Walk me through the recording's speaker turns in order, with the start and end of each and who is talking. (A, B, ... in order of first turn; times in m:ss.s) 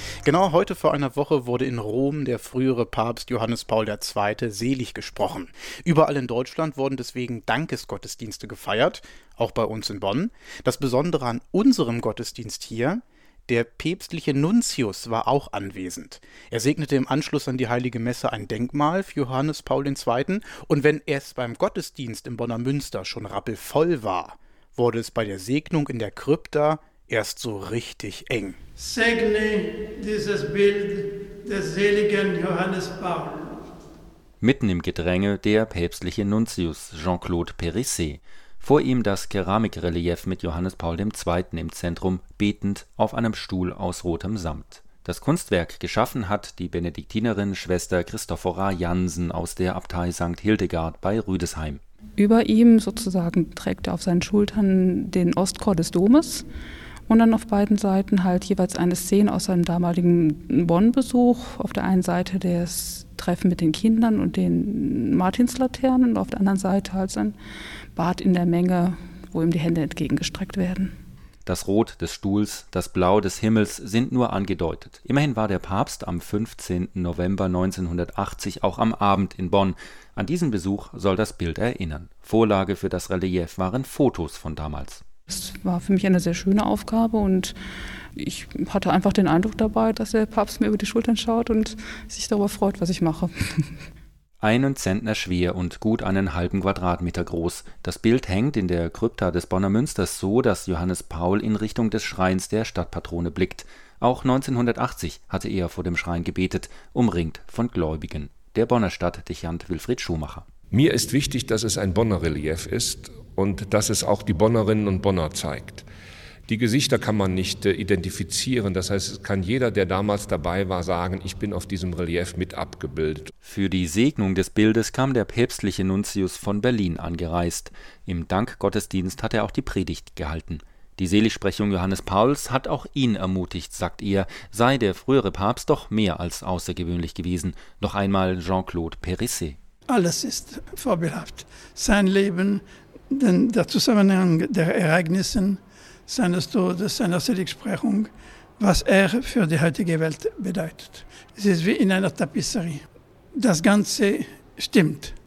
0:00.2-0:28.6 A
0:28.8-0:33.6 B
0:34.4-0:51.8 C
0:52.2-0:56.4 D
0:57.1-1:07.4 D
1:07.9-1:10.9 D
1:11.4-1:25.0 C
1:25.3-1:27.5 D
1:28.1-1:33.8 D
1:34.4-1:50.5 C
1:50.7-1:55.8 E
1:56.5-2:03.3 E
2:03.4-2:19.6 C
2:19.9-2:32.8 B
2:33.4-2:35.2 B